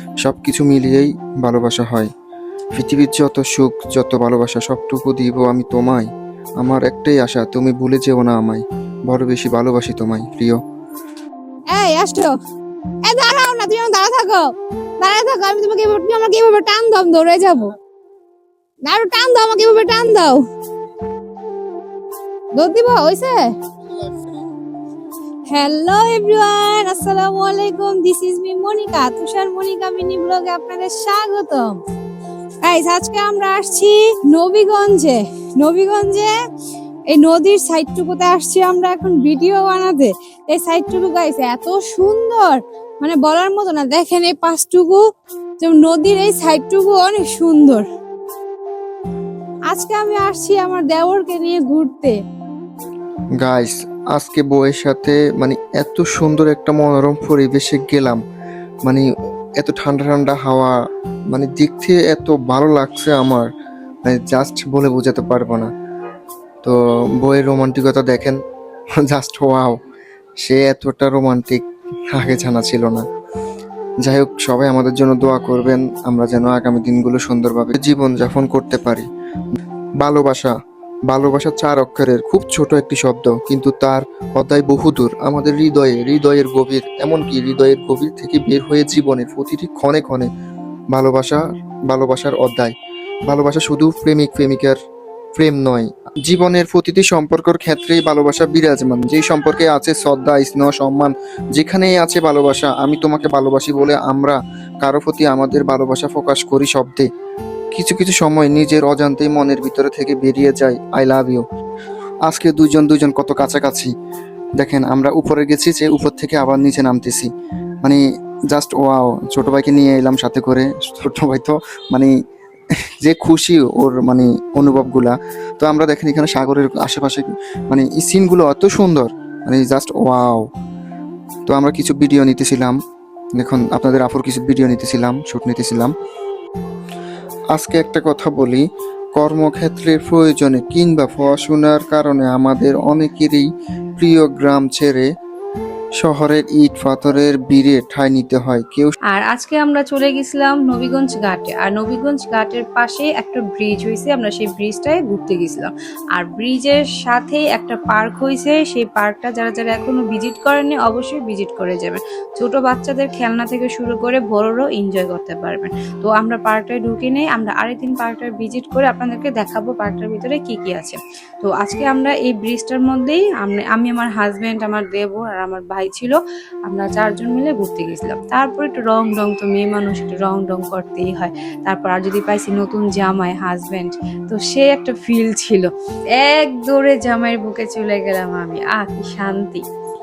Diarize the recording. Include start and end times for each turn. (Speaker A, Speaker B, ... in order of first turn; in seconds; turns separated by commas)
Speaker A: 0.2-2.1, Speaker A: 2.8-6.1, Speaker A: 6.6-10.6, Speaker B: 11.7-12.1, Speaker C: 11.8-12.3, Speaker C: 13.1-14.3, Speaker B: 13.1-14.4, Speaker B: 15.0-17.7, Speaker C: 15.1-17.5, Speaker B: 18.9-20.4, Speaker C: 19.0-19.6, Speaker B: 22.6-23.4, Speaker B: 25.5-31.8, Speaker C: 26.9-27.2, Speaker B: 32.6-36.3, Speaker B: 37.1-45.0, Speaker B: 45.6-47.8, Speaker B: 49.7-52.2, Speaker A: 53.4-58.2, Speaker A: 59.6-60.8, Speaker A: 61.3-63.5, Speaker A: 64.1-65.7, Speaker A: 66.6-68.4, Speaker A: 69.0-69.8, Speaker A: 70.4-73.0, Speaker A: 74.0-79.0, Speaker A: 80.0-80.5, Speaker A: 81.1-90.3, Speaker A: 90.9-92.7, Speaker A: 93.3-94.8, Speaker A: 95.3-107.1, Speaker A: 107.7-111.4, Speaker A: 112.3-113.9, Speaker A: 114.6-117.3, Speaker A: 117.8-122.1, Speaker A: 123.0-130.4, Speaker A: 131.5-132.8, Speaker A: 133.4-135.9, Speaker A: 137.5-138.6, Speaker A: 139.2-145.1, Speaker A: 146.0-148.9, Speaker C: 149.1-189.6